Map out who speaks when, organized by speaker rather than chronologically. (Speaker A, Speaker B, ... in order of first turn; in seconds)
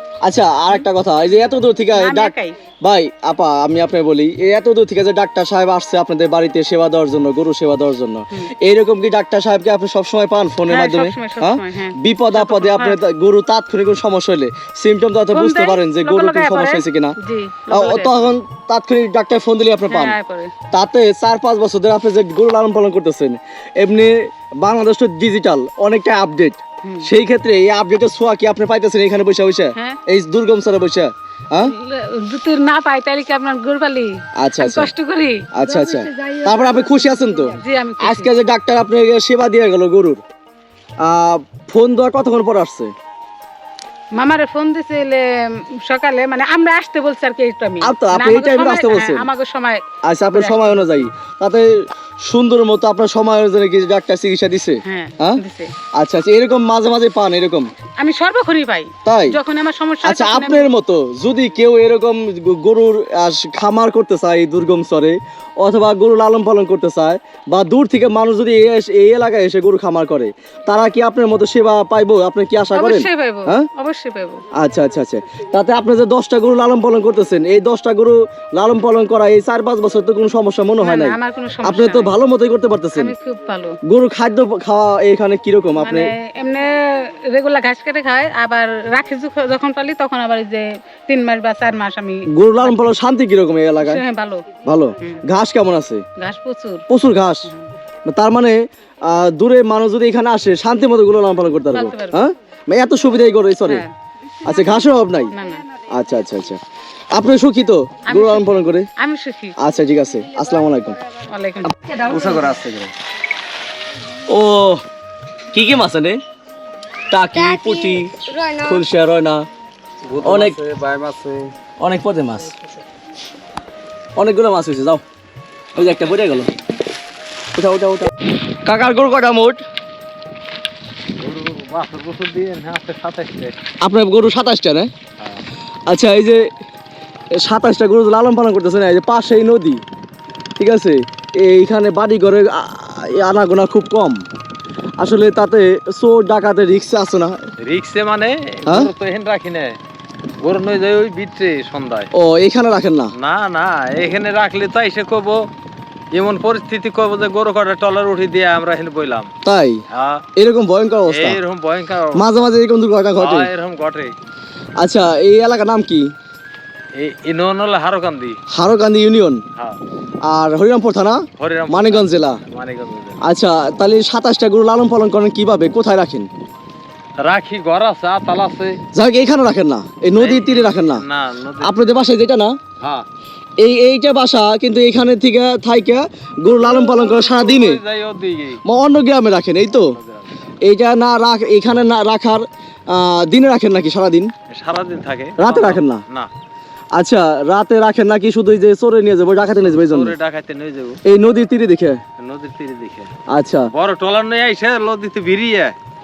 Speaker A: 0.2-17.1, 17.7-20.2, 20.7-31.7, 34.4-34.9, 35.5-40.2, 41.0-42.9, 47.8-49.3, 50.0-55.4, 56.0-57.7, 59.0-59.4, 60.0-73.7, 74.5-83.1, 83.9-86.1, 92.3-94.0, 94.7-96.0, 96.9-97.5, 98.1-103.8, 104.4-105.3, 105.9-106.6, 107.1-108.9, 109.6-111.0, 111.8-112.9, 114.3-114.8, 115.5-116.2, 117.1-119.5, 120.2-120.6, 121.8-122.5, 124.2-125.0, 125.8-126.5, 127.5-128.1, 128.7-129.6, 133.8-134.9, 135.9-136.4, 137.4-139.8, 140.6-144.2, 145.0-147.4, 148.7-148.9, 152.1-153.1, 159.4-159.8, 160.4-161.4, 162.2-163.5, 164.8-166.1, 168.5-169.4, 170.2-172.4, 173.2-176.3, 178.9-181.0, 181.6-182.6, 183.6-187.8, 188.7-189.9, 190.6-194.3, 195.4-196.0, 196.9-200.2, 201.1-202.0, 203.3-203.7
Speaker B: 2.0-2.6, 10.7-13.0, 15.3-18.3, 19.9-20.5, 26.8-27.1, 31.6-38.3, 44.2-51.1, 54.9-55.7, 58.0-60.7, 72.7-74.5, 80.8-82.2, 83.0-83.8, 85.8-92.8, 93.8-94.5, 96.2-96.9, 101.7-102.3, 103.7-103.9, 105.3-105.7, 108.1-109.6, 111.2-111.9
Speaker C: 120.1-121.5, 131.2-133.5, 147.6-149.8, 150.4-152.1, 153.2-155.5, 156.1-159.3, 159.9-160.3, 161.1-162.3, 163.2-164.1, 167.0-168.4, 171.4-173.2, 177.2-178.8, 180.2-182.1, 182.8-183.1, 186.6-188.6, 189.7-190.5, 194.5-196.3, 199.7-201.0, 202.2-203.1, 203.7-205.8